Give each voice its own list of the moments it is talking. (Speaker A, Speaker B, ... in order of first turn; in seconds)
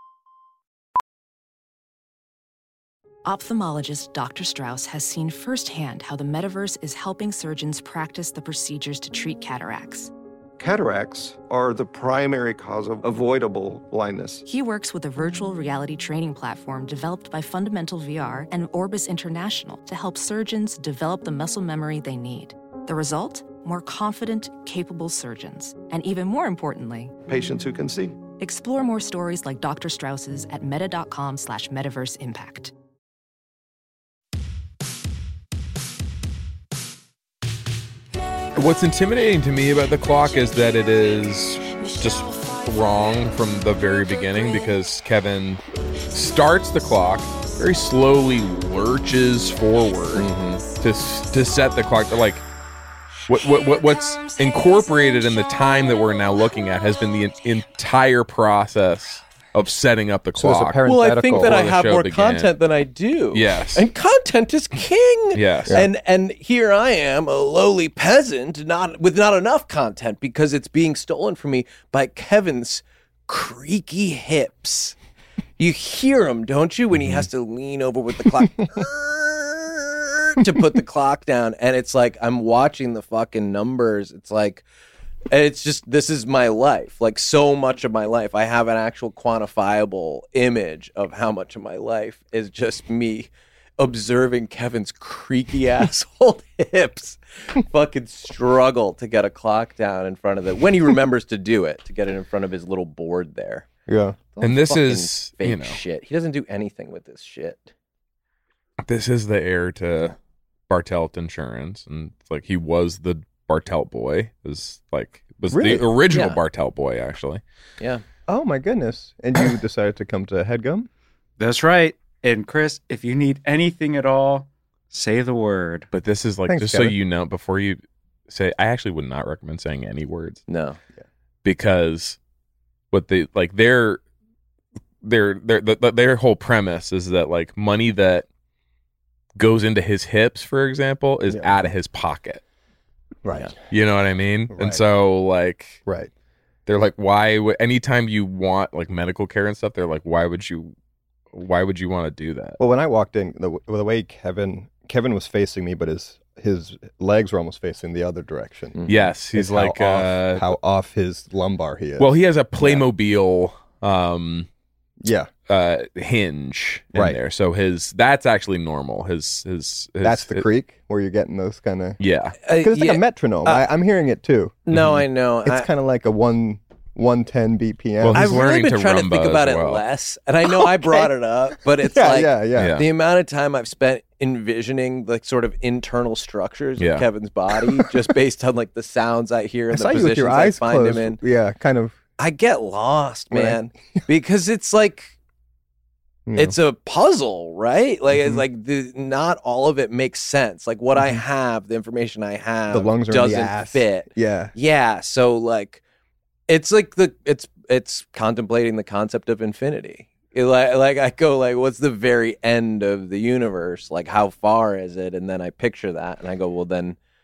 Speaker A: 3.2-10.1, 14.4-27.1, 28.4-32.7
Speaker B: 10.6-14.4, 27.3-28.2
Speaker C: 38.5-52.5, 53.3-62.5, 63.3-63.8, 65.3-65.8, 77.0-77.2, 104.4-105.8, 108.8-110.2, 110.7-117.4, 125.9-130.4, 131.4-132.2, 132.9-134.0, 135.0-138.2, 139.3-142.4, 143.6-145.8, 146.7-150.7, 151.3-152.6, 158.9-160.5, 162.0-164.5, 165.5-170.4, 172.0-172.3, 174.7-175.0, 178.0-179.8, 182.6-182.8, 186.8-187.1
Speaker D: 50.1-50.6, 60.9-75.0, 75.6-84.6, 85.3-103.7, 104.3-107.7, 116.1-116.4, 130.5-130.8, 158.8-159.1, 172.4-173.7, 174.7-175.7, 178.1-191.2, 192.2-195.1, 196.3-205.8, 206.5-217.0
Speaker E: 60.3-61.6, 103.9-104.2, 115.5-115.8, 118.3-120.9, 126.5-127.0, 143.2-143.5, 144.5-144.8, 152.6-162.8, 165.0-165.3, 166.9-167.2, 170.0-172.0, 172.5-174.7, 175.4-178.4, 180.4-181.1, 181.8-182.8, 189.7-192.0, 193.3-193.6, 196.2-196.5, 198.1-198.4, 200.9-201.2, 202.7-204.5
Speaker F: 121.4-125.9